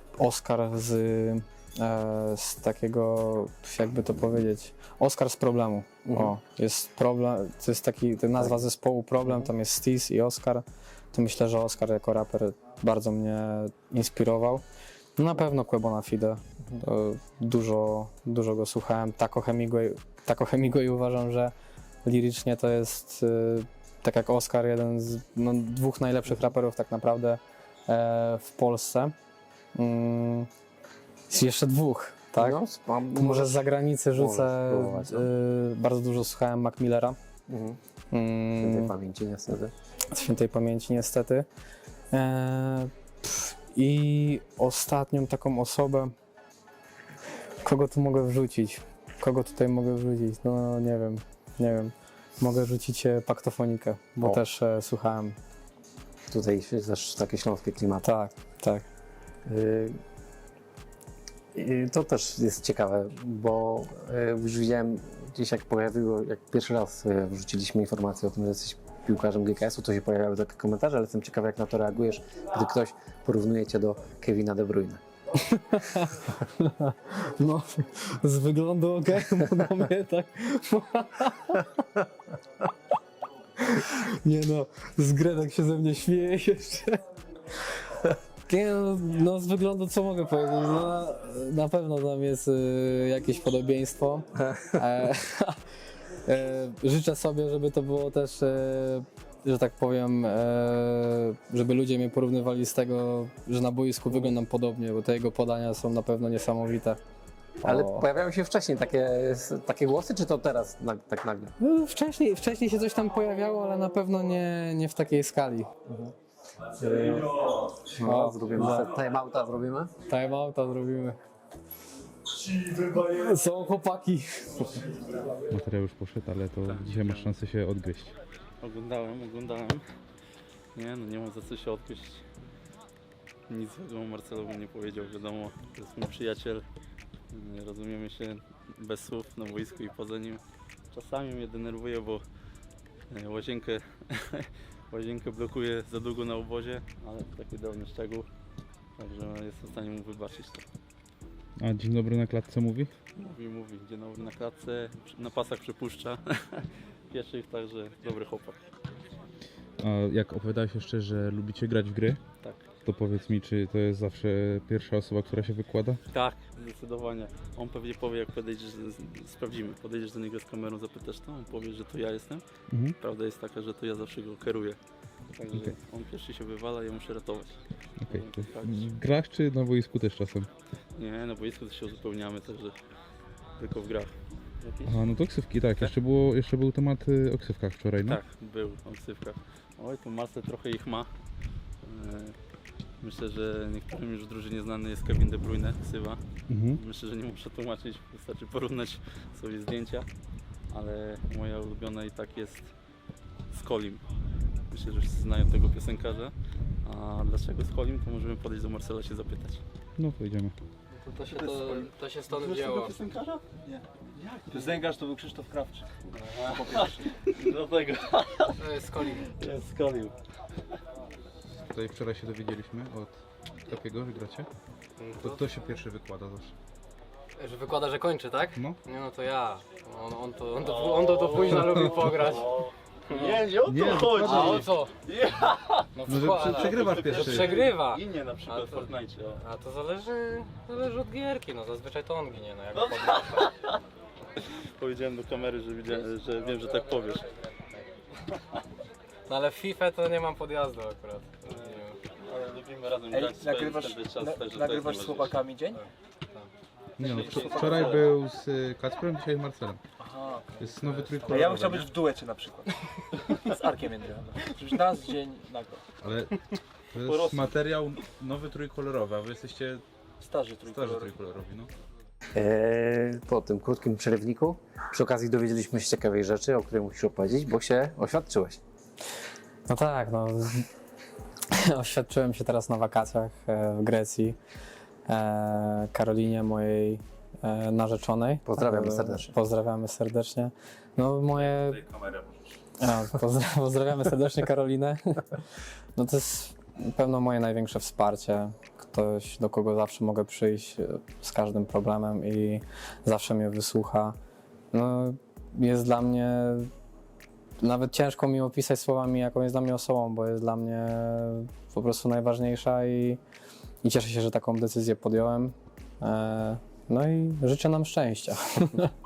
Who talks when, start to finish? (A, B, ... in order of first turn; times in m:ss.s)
0:00.2-0:14.6 A
0:06.1-0:06.3 B
0:15.2-0:21.5 A
0:22.0-0:29.1 A
0:29.7-0:30.5 A
0:31.3-0:32.6 A
0:32.4-0:33.6 B
0:33.1-0:37.2 A
0:34.1-0:35.3 B
0:37.5-0:37.8 B
0:38.1-0:38.9 A
0:38.6-0:39.7 B
0:40.1-0:41.4 A
0:42.1-0:46.1 A
0:47.6-0:55.4 A
0:56.3-0:58.0 B
0:58.0-0:58.8 A
0:59.5-1:00.0 B
1:01.5-1:15.0 B
1:15.4-1:21.7 A
1:23.6-1:27.0 A
1:28.4-1:35.6 A
1:36.2-1:47.0 A
1:47.6-1:48.0 A
1:47.6-1:51.5 B
1:51.6-1:55.7 A
1:55.9-1:56.1 B
1:56.8-1:57.3 A
1:57.7-1:59.9 B
1:58.0-1:58.9 A
2:00.1-2:01.2 A
2:02.5-2:05.0 A
2:05.5-2:08.1 C
2:06.6-2:07.3 D
2:08.6-2:09.8 D
2:10.7-2:12.3 D
2:13.5-2:16.6 D
2:17.3-2:22.2 D
2:23.1-2:28.3 D
2:29.0-2:30.6 D
2:31.6-2:32.9 C
2:33.2-2:38.6 D
2:39.8-2:42.2 C
2:42.8-2:46.0 C
2:46.1-2:52.4 D
2:52.7-2:53.0 C
2:53.0-2:54.8 D
2:55.3-2:58.9 D
2:58.0-3:00.5 C
3:01.0-3:02.7 D
3:03.6-3:05.0 D
3:04.8-3:08.2 C
3:08.0-3:11.1 D
3:11.8-3:12.4 D
3:13.0-3:20.1 D
3:16.5-3:16.8 C
3:20.7-3:22.7 D
3:23.5-3:24.0 D
3:24.7-3:26.3 D
3:26.8-3:29.6 D
3:30.0-3:30.5 C
3:31.0-3:33.0 A
3:31.3-3:31.9 E
3:32.3-3:33.5 D
3:34.1-3:34.8 D
3:34.5-3:37.1 E
3:36.2-3:40.1 D
3:38.6-3:39.3 A
3:41.6-3:44.5 C
3:45.0-3:45.5 A
3:45.2-3:46.5 C
3:47.4-3:52.5 A
3:50.6-3:59.4 D
3:51.4-3:51.9 C
3:53.1-3:53.4 A
3:53.6-3:54.7 C
3:54.2-3:54.9 A
3:56.0-4:03.5 A
3:56.0-3:57.6 C
4:02.8-4:03.7 D
4:04.6-4:07.3 D
4:09.3-4:12.0 A
4:12.2-4:15.4 D
4:13.1-4:15.9 E
4:17.0-4:18.1 D
4:17.0-4:19.8 C
4:17.3-4:18.1 E
4:20.0-4:25.8 E
4:20.6-4:21.9 C
4:23.2-4:23.6 D
4:26.0-4:26.4 C
4:26.9-4:29.8 C
4:30.2-4:31.1 E
4:30.6-4:31.7 C
4:32.3-4:38.6 B
4:39.7-4:40.7 A
4:41.5-4:44.4 A
4:45.1-4:51.9 A
4:48.4-4:49.3 B
4:52.0-4:52.2 D
4:52.8-4:55.4 A
4:55.9-5:04.2 A
5:04.7-5:06.7 A
5:07.6-5:13.2 A
5:13.8-5:18.9 A